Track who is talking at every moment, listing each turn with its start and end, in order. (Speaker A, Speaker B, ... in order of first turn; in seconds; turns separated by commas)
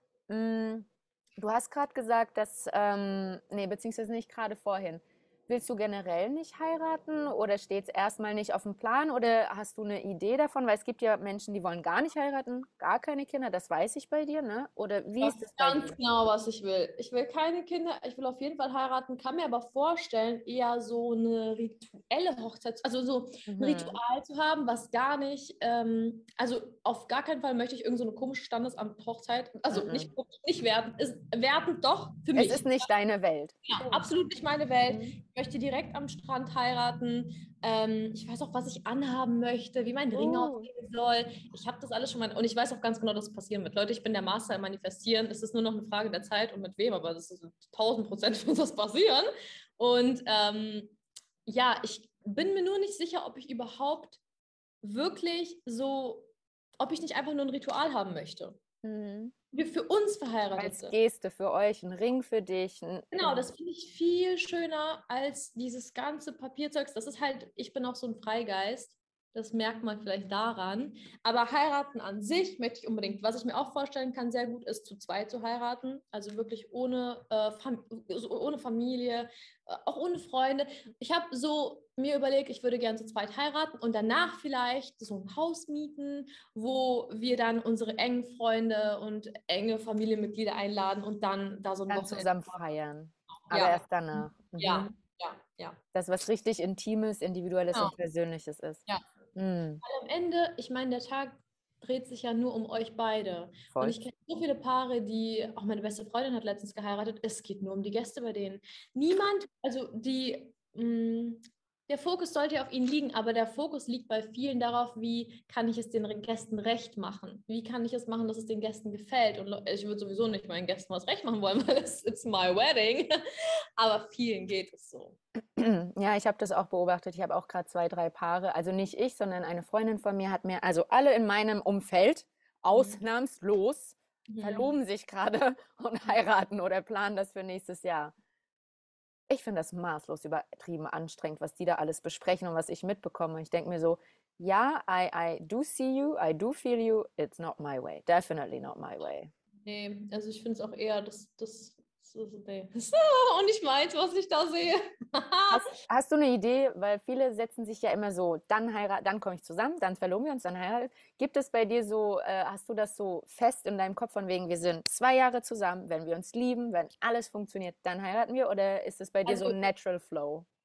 Speaker A: 0.3-16.0, Speaker B: 15.2-32.9, Speaker A: 23.5-24.0, Speaker A: 29.7-30.1, Speaker A: 32.3-34.1, Speaker B: 33.6-54.2, Speaker A: 34.8-35.1, Speaker A: 40.1-40.7, Speaker B: 54.8-58.6, Speaker A: 58.8-59.3, Speaker B: 59.5-60.9, Speaker A: 60.6-63.4, Speaker B: 63.1-92.4, Speaker A: 91.9-94.9, Speaker B: 93.5-95.8, Speaker A: 95.9-98.8, Speaker A: 99.3-99.8, Speaker B: 99.8-123.1, Speaker A: 103.7-104.0, Speaker B: 123.8-125.2, Speaker A: 125.5-138.1, Speaker B: 132.7-133.0, Speaker B: 134.3-134.7, Speaker A: 139.3-149.3, Speaker B: 149.6-155.7, Speaker A: 155.5-170.5, Speaker B: 169.2-169.6